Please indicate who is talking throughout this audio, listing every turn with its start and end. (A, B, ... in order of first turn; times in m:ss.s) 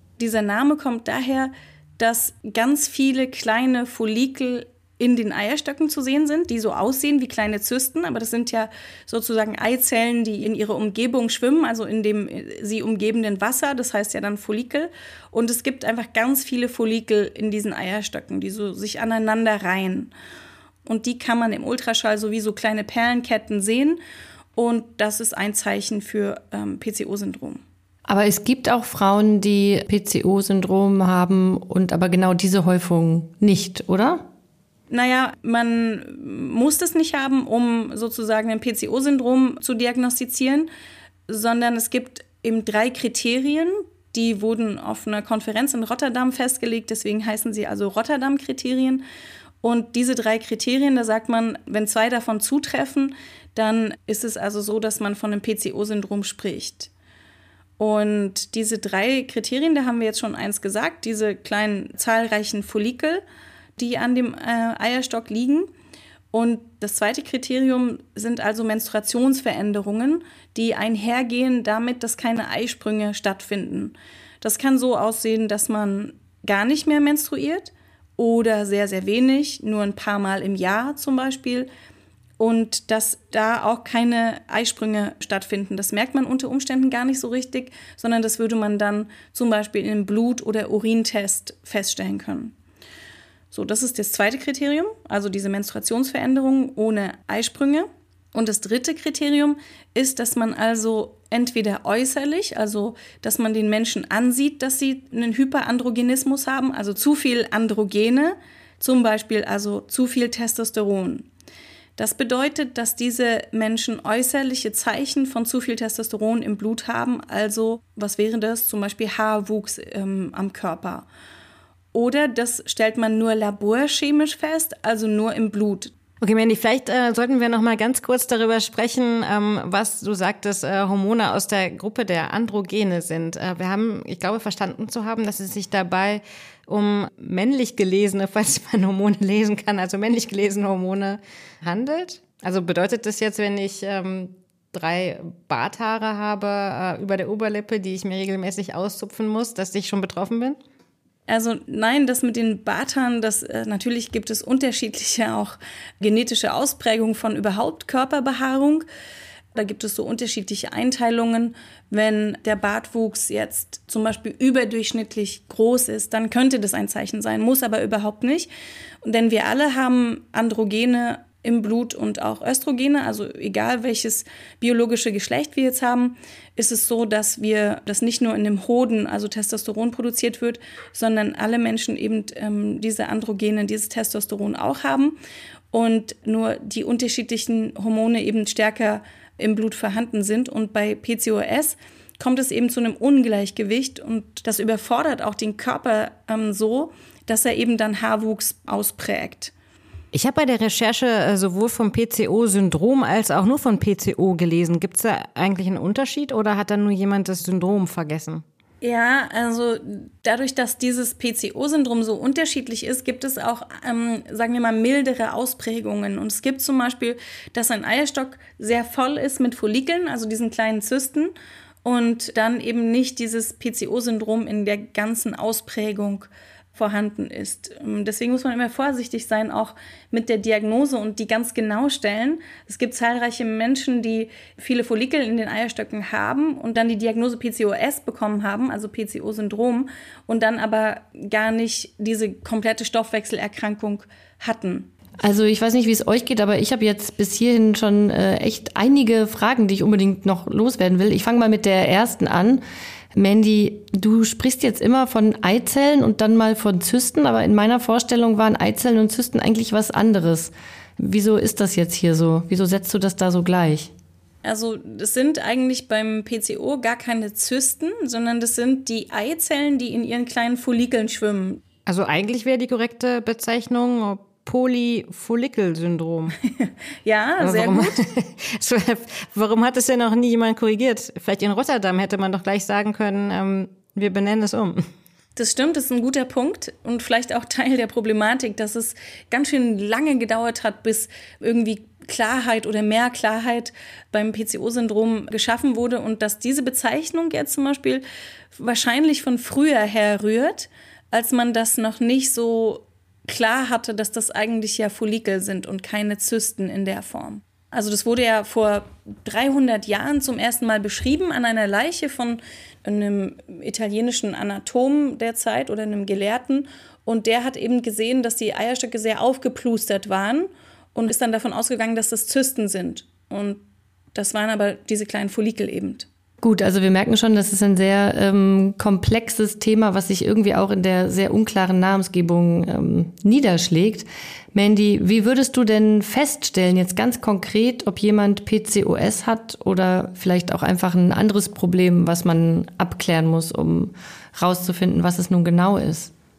0:00.2-0:20.1 A
0:20.8-0:24.0 A
0:24.6-0:27.6 A
0:28.1-0:34.2 B
0:34.9-0:40.7 A
0:41.3-0:49.0 A
0:49.6-0:56.9 A
0:57.8-1:03.2 A
1:03.8-1:05.7 A
1:06.3-1:21.7 A
1:22.4-1:32.5 A
1:33.5-1:51.3 A
1:52.0-2:01.1 A
2:01.9-2:05.9 A
2:06.2-2:30.6 C
2:31.3-2:38.8 A
2:39.6-2:48.5 A
2:49.0-3:05.2 A
3:05.7-3:19.5 A
3:20.1-3:28.4 C
3:28.8-3:41.3 A
3:41.8-4:04.9 A
4:05.2-4:12.6 B
4:13.1-4:23.9 B
4:24.4-4:31.6 A
4:31.9-4:36.4 C
4:36.6-4:38.0 A
4:37.4-4:44.8 C
4:45.4-4:58.0 A
4:58.6-5:23.6 A
5:24.2-5:26.1 A
5:26.4-5:46.1 B